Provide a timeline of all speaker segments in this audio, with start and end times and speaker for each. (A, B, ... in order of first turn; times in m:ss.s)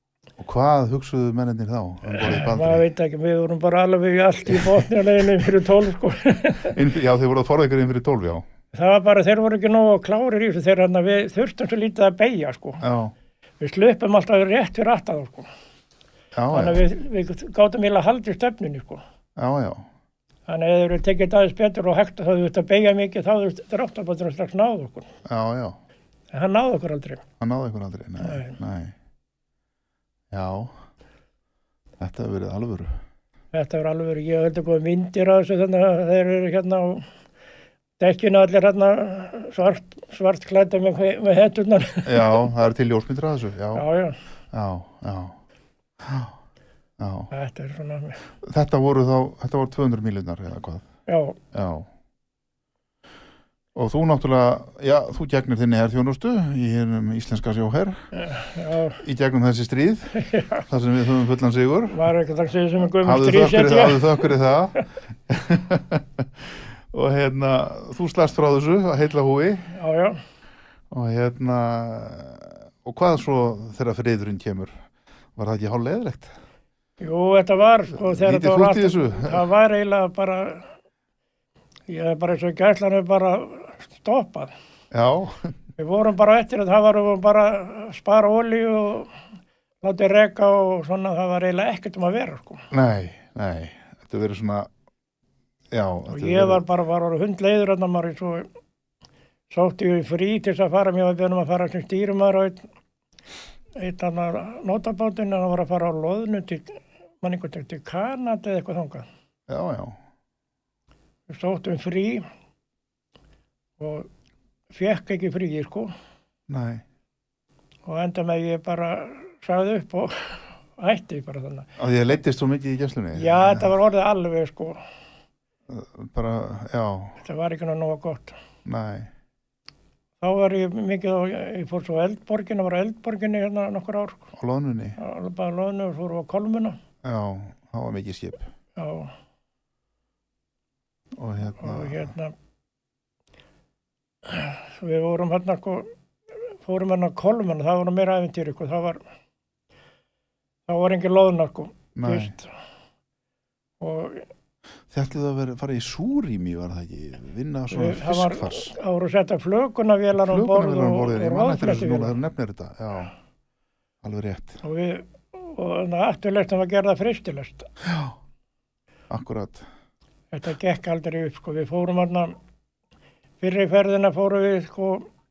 0:00.4-0:02.8 A
0:02.1-0:06.8 B
0:04.5-0:04.8 A
0:06.7-0:08.5 A
0:08.7-0:12.8 B
0:12.8-0:13.1 A
0:13.6-0:15.5 B
0:16.3-0:16.8 A
0:16.5-0:19.0 B
0:19.4-0:19.9 A
0:20.5-0:25.1 B
0:25.2-0:25.8 A
0:26.3-0:27.2 B
0:27.4-0:28.9 A
0:28.2-0:28.6 B
0:30.3-0:30.7 A
0:32.0-0:33.0 A
0:33.5-0:37.1 B
0:38.0-0:42.4 B
0:42.0-0:43.9 A
0:43.8-0:44.2 B
0:44.5-0:45.4 A
0:46.0-0:46.4 A
0:47.0-0:47.3 A
0:47.3-0:48.2 B
0:48.4-0:50.9 A
0:51.1-0:51.4 B
0:51.5-0:51.9 A
0:53.8-0:58.0 A
0:58.1-0:59.0 B
0:59.0-1:00.1 A
1:00.2-1:00.6 B
1:00.6-1:02.0 A
1:01.9-1:04.3 B
1:03.0-1:09.7 A
1:09.7-1:10.2 B
1:10.9-1:14.7 A
1:15.4-1:16.3 A
1:17.0-1:20.7 B
1:18.0-1:19.4 A
1:21.9-1:24.5 B
1:24.9-1:25.5 A
1:25.8-1:29.1 B
1:29.8-1:32.6 B
1:32.7-1:34.7 A
1:35.7-1:36.6 A
1:36.1-1:38.5 B
1:39.5-1:42.6 B
1:43.8-1:49.1 B
1:49.5-1:50.0 A
1:51.3-1:52.3 B
1:53.8-1:54.1 B
1:54.7-1:55.9 B
1:56.5-1:56.8 A
1:57.9-2:01.7 B
2:01.8-2:03.7 A
2:03.2-2:04.8 B
2:05.7-2:07.2 A
2:07.2-2:08.4 B
2:08.6-2:09.1 A
2:10.2-2:14.3 B
2:14.4-2:15.0 A
2:15.0-2:16.8 B
2:17.0-2:18.5 A
2:18.8-2:19.1 B
2:21.2-2:22.1 A
2:21.6-2:22.3 B
2:24.3-2:25.9 B
2:26.6-2:29.0 B
2:30.7-2:32.5 B
2:32.0-2:32.3 A
2:33.8-2:34.3 B
2:34.9-2:38.7 A
2:37.7-2:42.2 B
2:40.2-2:43.1 A
2:44.0-2:44.6 A
2:44.6-2:47.7 B
2:47.8-2:48.2 A
2:49.1-2:49.7 A
2:50.3-2:52.4 B
2:53.4-2:55.1 B